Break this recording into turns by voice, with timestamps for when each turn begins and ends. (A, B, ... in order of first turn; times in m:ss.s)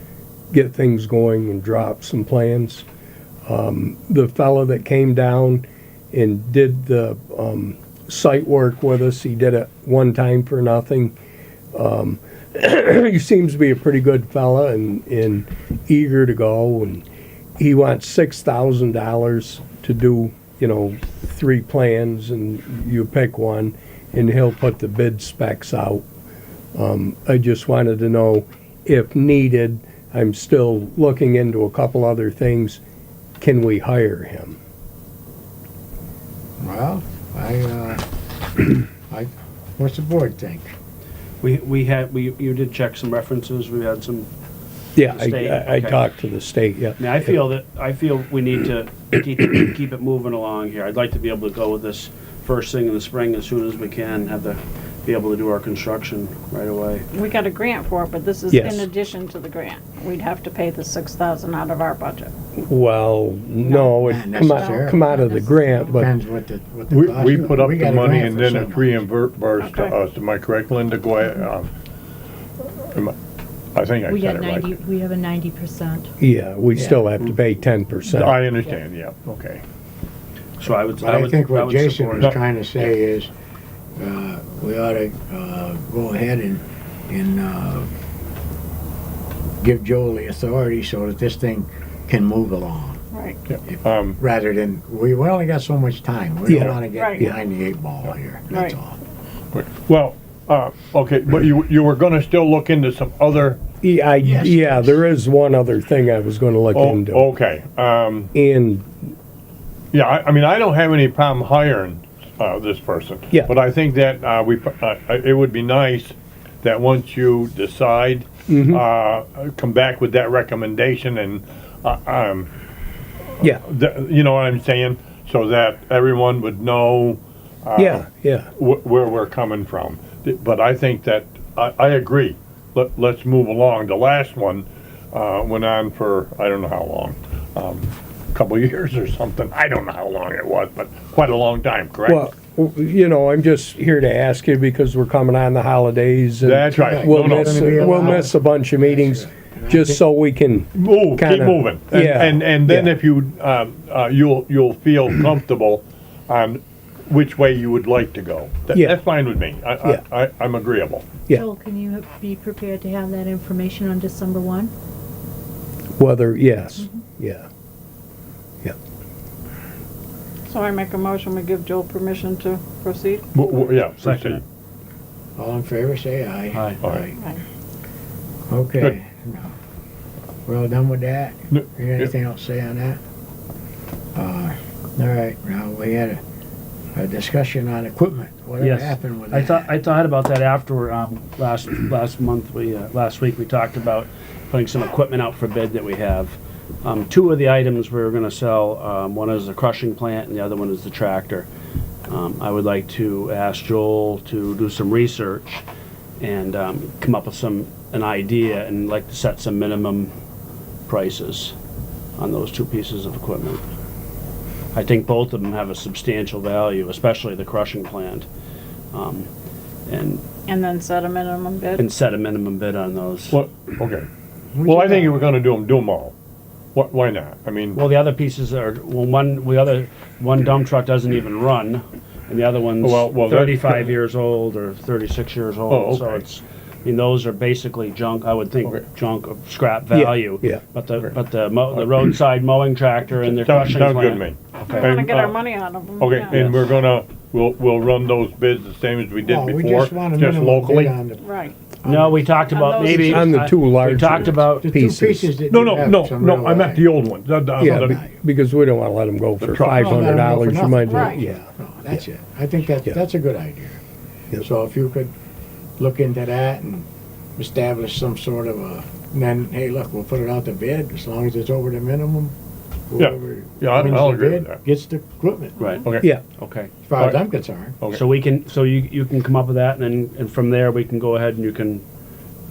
0:00.5-0:02.8 A
0:03.4-0:11.1 A
0:11.7-0:17.0 A
0:17.6-0:26.0 A
0:26.7-0:32.8 A
0:33.4-0:34.6 A
0:36.6-0:38.0 B
0:39.1-0:40.7 B
0:41.4-0:44.3 C
0:45.0-0:47.0 A
0:45.1-0:46.0 C
0:47.0-0:57.0 C
0:57.1-1:02.3 D
0:58.5-0:58.8 A
1:02.6-1:06.1 A
1:03.6-1:03.9 D
1:04.0-1:05.1 B
1:04.5-1:05.9 E
1:05.9-1:09.0 B
1:06.9-1:11.7 F
1:09.6-1:10.0 D
1:12.6-1:13.2 F
1:13.7-1:14.7 F
1:14.1-1:16.1 E
1:16.2-1:18.4 A
1:16.7-1:17.0 B
1:18.1-1:19.6 F
1:20.6-1:22.3 C
1:21.0-1:23.3 B
1:24.0-1:27.9 B
1:29.6-1:33.0 B
1:33.1-1:33.4 D
1:33.5-1:34.2 F
1:33.6-1:39.0 B
1:36.5-1:37.3 A
1:36.9-1:37.2 D
1:38.5-1:38.7 D
1:39.5-1:43.6 F
1:43.8-1:47.2 A
1:44.2-1:45.0 B
1:46.7-1:48.3 F
1:48.3-1:49.1 A
1:49.9-2:02.5 F
1:58.5-1:58.8 A
2:03.4-2:22.3 F
2:07.8-2:08.5 A
2:22.1-2:32.9 A
2:26.4-2:28.2 F
2:26.7-2:30.0 B
2:30.7-2:41.1 F
2:41.3-2:44.7 E
2:46.0-2:47.4 A
2:50.5-2:53.2 D
2:53.3-2:54.4 F
2:54.0-2:54.4 C
2:55.4-2:57.1 B
2:56.5-2:56.8 C
2:56.8-2:57.1 F
2:57.1-2:57.4 D
2:58.5-2:59.5 B
3:00.4-3:03.0 B
3:01.5-3:02.1 F
3:04.1-3:06.2 B
3:06.9-3:09.7 B
3:08.6-3:21.5 C
3:22.1-3:25.6 C
3:26.2-3:30.1 C
3:30.9-3:31.5 C
3:32.2-3:33.6 C
3:34.7-3:38.2 C
3:38.9-3:39.3 C
3:39.9-3:40.2 C
3:40.5-3:41.8 D
3:41.8-3:43.4 C
3:43.3-3:44.1 F
3:44.5-3:45.2 B
3:44.6-3:46.1 F
3:46.7-3:47.8 F
3:47.7-4:04.3 C
3:52.8-3:53.9 F
3:55.7-3:56.2 F
3:59.9-4:00.6 A
4:01.7-4:02.0 F
4:03.3-4:05.4 F
4:04.7-4:06.6 D
4:06.0-4:11.0 F
4:09.2-4:11.2 B
4:11.2-4:11.5 D
4:11.8-4:12.3 B
4:11.8-4:14.7 C
4:12.5-4:13.4 D
4:13.1-4:15.3 A
4:14.6-4:16.9 B
4:15.5-4:18.0 F
4:17.6-4:21.4 A
4:17.6-4:18.1 B
4:19.4-4:20.2 F
4:19.8-4:23.8 B
4:20.9-4:21.2 D
4:24.4-4:25.1 B
4:25.8-4:32.3 B
4:32.9-4:35.7 B
4:33.0-4:34.6 F
4:35.6-4:36.7 C
4:35.8-4:36.1 F
4:36.8-4:37.8 B
4:37.0-4:37.2 F
4:37.9-4:41.8 C